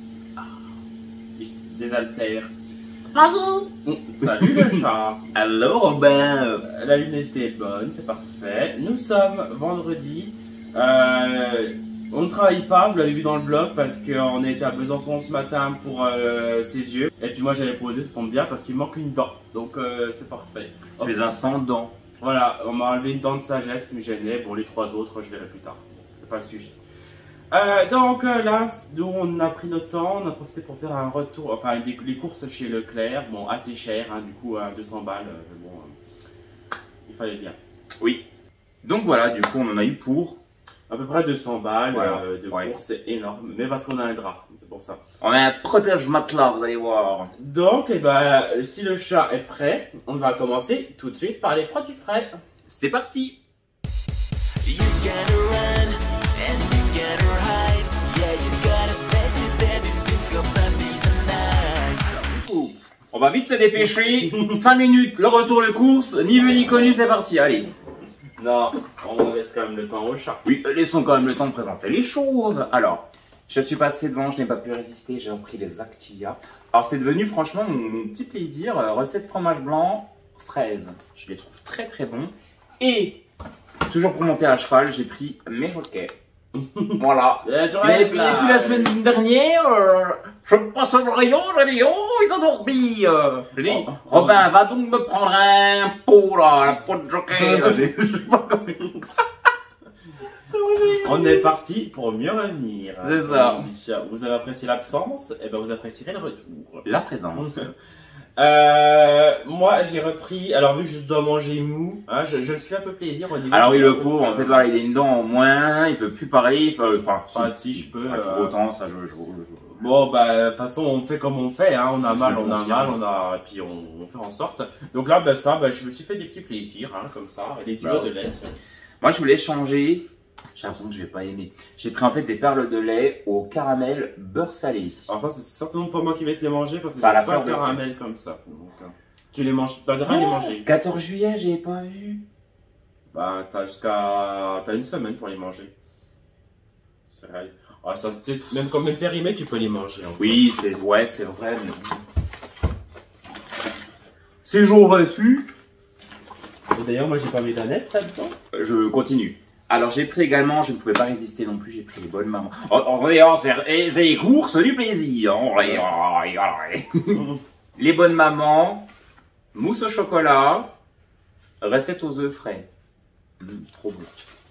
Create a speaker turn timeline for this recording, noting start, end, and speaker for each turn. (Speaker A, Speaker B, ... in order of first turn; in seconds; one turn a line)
Speaker A: 1.4-2.5
Speaker B: 3.1-3.7
Speaker A: 3.8-5.2
Speaker B: 5.3-6.7
Speaker A: 6.7-21.2
Speaker B: 21.0-21.9
Speaker A: 22.2-26.8
Speaker A: 27.5-35.9
Speaker A: 37.1-37.6
Speaker B: 38.0-38.2
Speaker B: 38.8-40.4
Speaker A: 40.9-45.0
Speaker B: 41.9-42.7
Speaker B: 45.2-47.3
Speaker A: 47.4-52.4
Speaker B: 52.7-53.4
Speaker C: 54.6-62.1
Speaker B: 62.1-67.7
Speaker A: 68.4-70.4
Speaker B: 70.4-83.2
Speaker B: 83.8-86.1
Speaker A: 86.7-88.9
Speaker B: 87.0-99.2
Speaker A: 93.6-94.4
Speaker B: 100.5-101.4
Speaker A: 101.0-106.8
Speaker B: 103.0-103.7
Speaker B: 106.8-107.7
Speaker A: 107.4-107.7
Speaker A: 108.4-114.6
Speaker B: 113.5-119.8
Speaker A: 117.3-118.5
Speaker A: 119.8-128.5
Speaker B: 122.0-123.0
Speaker B: 127.8-128.1
Speaker B: 129.0-135.1
Speaker A: 135.1-140.7
Speaker B: 137.0-137.8
Speaker B: 140.1-142.2
Speaker A: 143.1-145.7
Speaker A: 147.1-150.4
Speaker B: 150.2-152.0
Speaker B: 154.4-155.5
Speaker A: 156.7-158.3
Speaker B: 158.5-168.8
Speaker B: 169.5-170.7
Speaker B: 171.6-172.7
Speaker B: 173.4-174.2